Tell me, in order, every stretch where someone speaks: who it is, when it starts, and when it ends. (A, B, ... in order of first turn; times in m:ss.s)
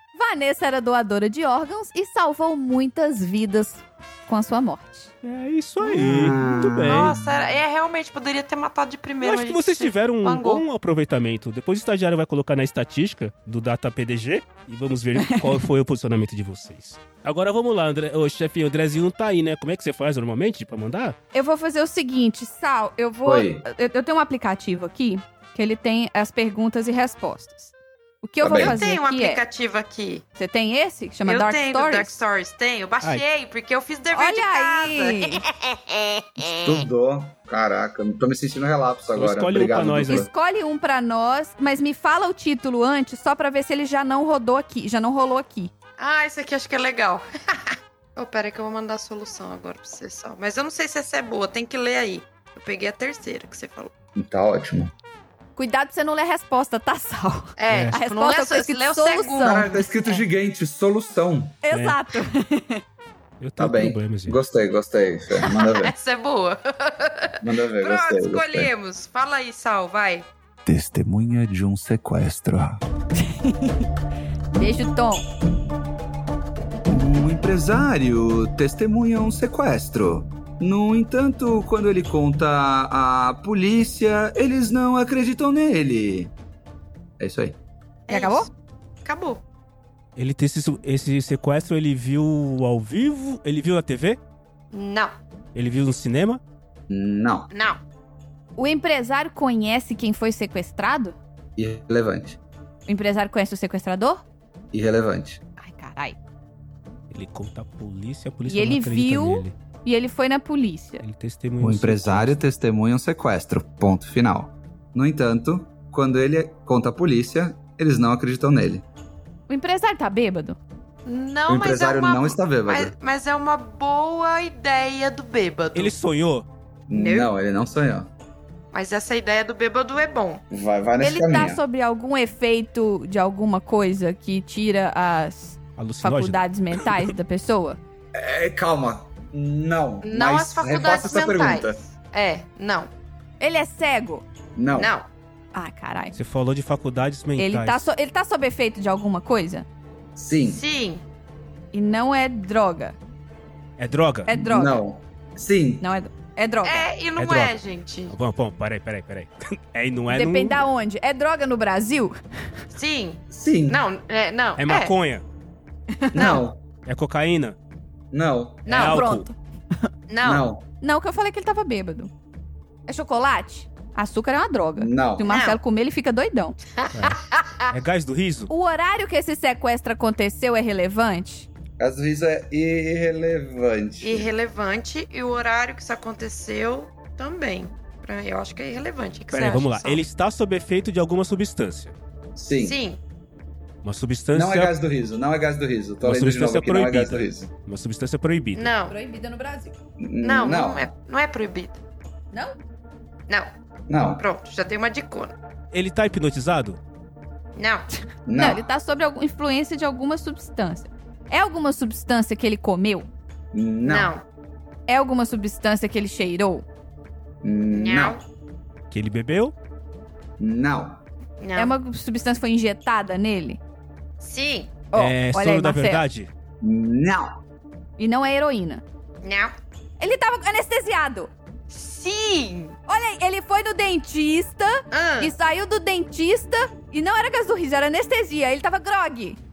0:00.1-0:05.1 A
0:05.2-0:07.2 B
0:05.8-0:07.3 C
0:06.8-0:10.6 D
0:09.2-0:21.2 B
0:15.2-0:15.5 A
0:21.3-0:29.4 A
0:23.2-0:23.6 C
0:28.4-0:28.8 C
0:28.5-0:30.2 D
0:30.4-0:32.1 A
0:31.2-0:36.8 D
0:34.1-0:35.4 A
0:36.4-0:40.3 C
0:39.1-0:40.3 B
0:40.1-0:45.7 A
0:46.0-0:53.9 D
0:54.1-0:54.9 C
0:55.6-0:59.7 A
0:57.6-1:00.2 D
0:57.7-0:58.0 B
0:59.4-1:01.6 C
1:01.6-1:02.8 A
1:01.7-1:02.0 B
1:03.4-1:04.4 B
1:03.6-1:05.9 C
1:05.4-1:10.3 D
1:07.4-1:08.7 C
1:10.6-1:12.8 C
1:13.2-1:13.8 A
1:14.5-1:15.2 A
1:16.9-1:26.3 C
1:27.2-1:27.6 C
1:28.1-1:28.5 D
1:28.1-1:28.5 A
1:29.0-1:29.4 D
1:30.2-1:34.2 B
1:34.7-1:35.1 D
1:35.5-1:36.4 B
1:36.9-1:37.5 C
1:37.5-1:37.8 D
1:38.6-1:41.2 A
1:41.6-1:42.4 C
1:42.9-1:44.2 A
1:44.7-1:45.4 C
1:45.6-1:46.2 A
1:47.1-1:49.5 B
1:48.5-1:51.0 A
1:51.0-1:52.4 B
1:51.6-1:58.8 C
1:59.5-2:00.6 A
2:01.0-2:05.9 D
2:01.5-2:02.9 C
2:05.7-2:06.4 B
2:06.9-2:08.1 C
2:06.9-2:07.3 D
2:08.7-2:10.4 D
2:10.5-2:11.6 C
2:11.0-2:17.8 A
2:15.8-2:17.1 B
2:18.1-2:21.8 C
2:20.0-2:22.9 D
2:23.4-2:24.2 A
2:24.6-2:24.9 C
2:24.8-2:25.0 D
2:25.5-2:26.2 A
2:26.1-2:27.8 B
2:27.4-2:29.6 A
2:30.2-2:30.6 C
2:30.4-2:31.0 D
2:31.7-2:33.0 A
2:33.8-2:34.3 B
2:34.3-2:34.8 A
2:34.3-2:35.8 C
2:35.8-2:36.9 A
2:36.6-2:38.1 D
2:37.2-2:37.6 B
2:38.1-2:40.6 B
2:40.1-2:42.1 A
2:42.7-2:44.9 D
2:43.3-2:43.8 C
2:44.6-2:45.2 B
2:46.0-2:46.4 A
2:46.1-2:46.6 C
2:46.8-2:47.6 B
2:48.1-2:48.8 C
2:48.6-2:49.0 D
2:48.7-2:49.3 B
2:48.8-2:49.3 A
2:50.1-2:50.4 D
2:50.2-2:50.6 C
2:50.8-2:52.1 A
2:52.9-2:56.6 A
2:54.8-2:55.3 C
2:55.2-2:55.6 D
2:56.8-2:57.6 D
2:56.9-2:58.5 B
2:58.5-3:01.5 A
3:01.8-3:04.3 C
3:04.0-3:10.0 D
3:09.3-3:11.9 B
3:12.4-3:12.8 C
3:12.6-3:13.0 D
3:13.8-3:14.7 B
3:14.3-3:17.5 C
3:16.0-3:18.7 B
3:18.5-3:18.9 D
3:18.9-3:19.7 A
3:20.0-3:20.9 C
3:20.2-3:21.8 D
3:23.9-3:24.2 C
3:24.2-3:25.3 D
3:25.7-3:26.8 B
3:27.6-3:27.9 D
3:28.2-3:28.6 C
3:28.4-3:33.1 A
3:33.5-3:34.1 C
3:33.8-3:34.2 D
3:34.9-3:36.6 A
3:37.4-3:38.2 C
3:37.7-3:38.2 D
3:38.9-3:39.5 B
3:40.4-3:41.0 C
3:41.4-3:41.7 D
3:41.6-3:43.6 A
3:44.2-3:44.7 D
3:44.9-3:46.0 A
3:44.9-3:46.3 B
3:46.6-3:47.4 C
3:48.0-3:48.8 A
3:49.2-3:49.5 D
3:50.0-3:51.3 A
3:51.7-3:52.8 D
3:52.9-3:59.4 A
3:54.9-3:55.3 D